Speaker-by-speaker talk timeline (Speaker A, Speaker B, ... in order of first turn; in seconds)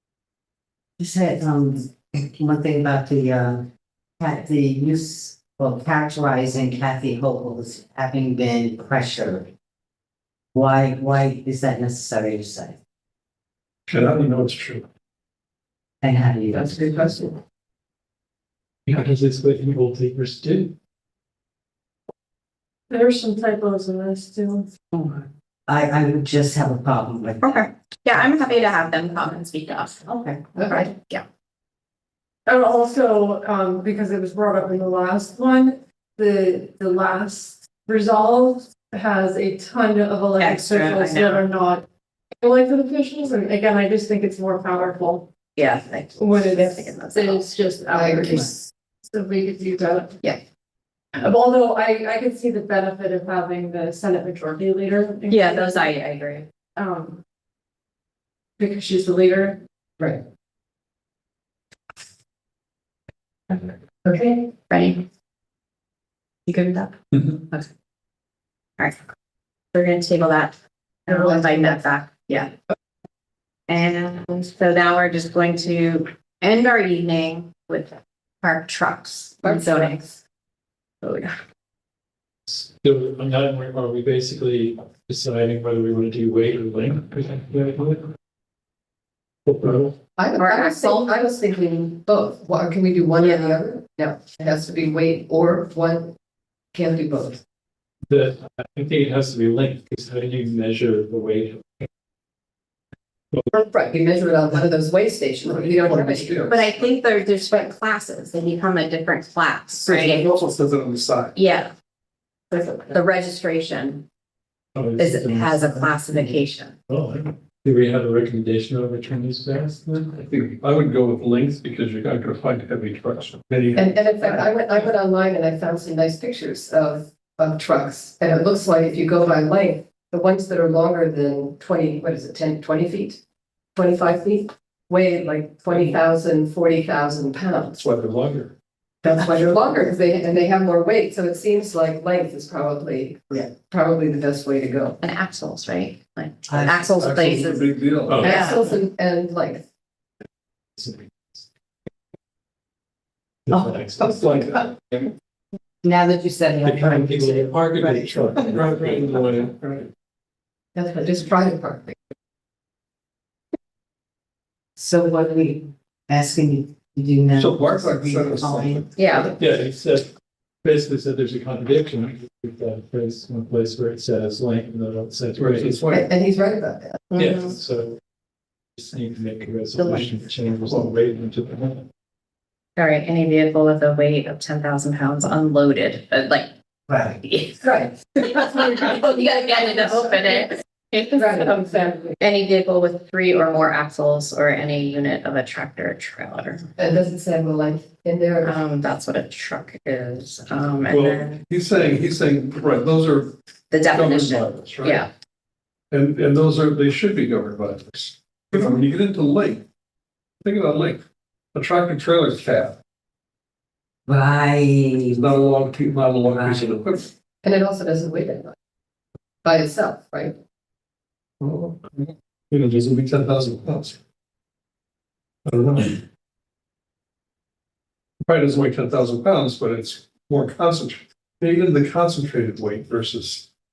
Speaker A: 1.0-3.7, 4.2-9.5, 10.5-12.8, 16.0-17.1, 25.7-28.8, 30.1-30.4, 146.5-147.0, 155.8-158.6, 164.8-169.3, 186.9-187.2, 214.1-215.4, 216.2-216.8
Speaker B: 13.9-14.8, 105.4-106.6, 109.8-111.4, 120.2-123.9, 137.8-138.5, 146.9-148.3, 158.5-159.9, 167.3-168.9, 175.4-176.1, 200.9-203.3, 203.9-205.1, 205.9-209.7, 210.4-211.0, 211.5-212.8, 215.1-217.1, 221.4-224.0, 225.4-226.1, 228.2-233.5
Speaker C: 16.5-17.4, 30.6-30.9, 47.9-48.5, 60.0-60.2, 64.0-64.5, 71.1-71.9, 79.4-80.2, 90.2-96.1, 96.7-97.4, 103.5-106.6, 123.7-133.2, 133.8-137.8, 139.0-145.0, 148.2-149.6, 160.8-162.0, 175.9-177.0, 187.6-188.0, 191.1-192.2, 196.8-198.6, 217.4-218.5, 219.4-220.4
Speaker D: 18.9-20.7, 82.5-88.0, 89.5-89.9, 98.1-101.9, 114.8-116.3, 116.9-120.2, 148.1-148.6, 150.8-151.5, 153.5-155.1, 156.6-159.1, 169.4-170.1, 170.6-175.8, 177.2-178.0, 178.8-181.8
Speaker E: 22.9-24.7, 32.5-41.8, 42.4-45.3, 46.2-50.2, 51.1-55.9, 56.8-57.2, 58.6-59.6
Speaker F: 27.4-31.2, 40.4-41.5, 45.5-47.4, 55.3-56.5, 64.5-65.0, 66.5-66.9, 69.7-72.5, 73.7-80.0, 81.0-81.3, 90.4-91.1, 93.2-93.6, 106.5-110.3, 111.3-111.7, 112.5-114.0, 115.0-116.7, 145.0-147.7, 148.2-148.6, 169.0-169.3, 177.1-177.6, 182.8-186.5, 187.2-187.6, 188.2-196.7, 198.4-201.4, 203.7-205.1